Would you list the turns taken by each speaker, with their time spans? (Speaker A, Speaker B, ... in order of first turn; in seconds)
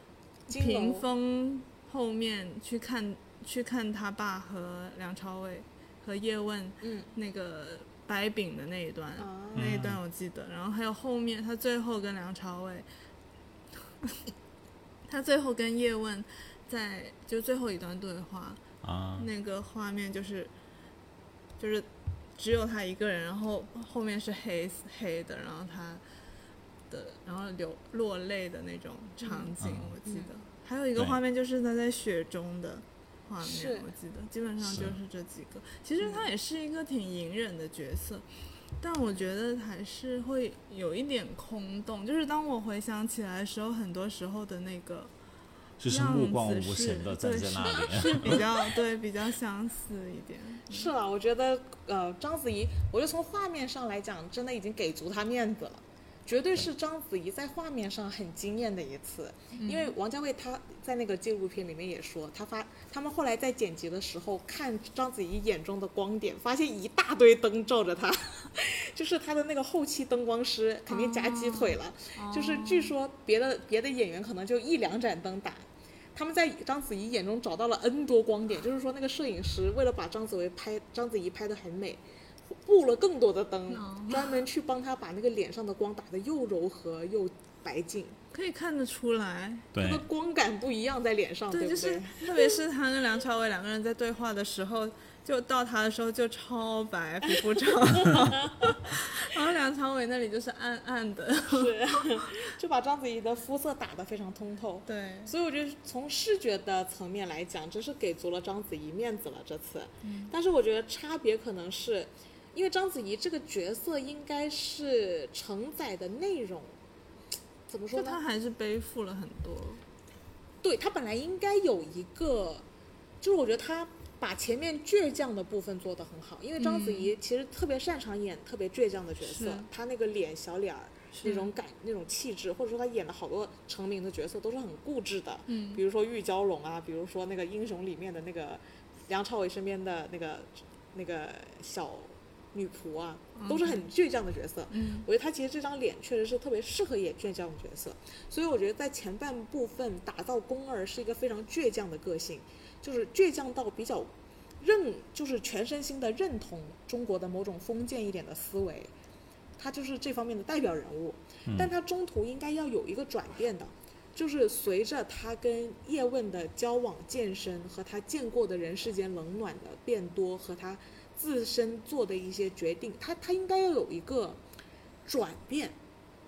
Speaker A: 0.5-1.1, 6.8-7.1, 9.2-9.8, 29.2-29.5, 30.1-30.3, 33.4-33.9, 36.0-36.3, 48.0-48.4, 50.7-88.2, 89.8-92.6, 97.8-98.8, 101.5-116.8, 117.7-118.2, 120.6-122.7, 123.2-158.9, 159.6-174.4, 175.1-175.8
Speaker B: 0.5-12.9, 15.1-18.6, 19.2-20.5, 21.6-26.0, 26.9-38.2, 38.8-45.1, 45.9-50.9, 59.5-59.9, 70.9-72.9, 83.7-84.4, 88.3-89.7, 91.5-102.4, 104.9-105.3, 110.0-110.3, 118.0-119.8, 126.6-127.1, 129.2-129.7, 131.1-131.5, 135.5-135.8, 143.4-143.9, 144.7-145.1
Speaker C: 9.6-10.0, 18.8-19.3, 29.6-29.9, 34.6-35.0, 45.8-48.5, 89.7-90.0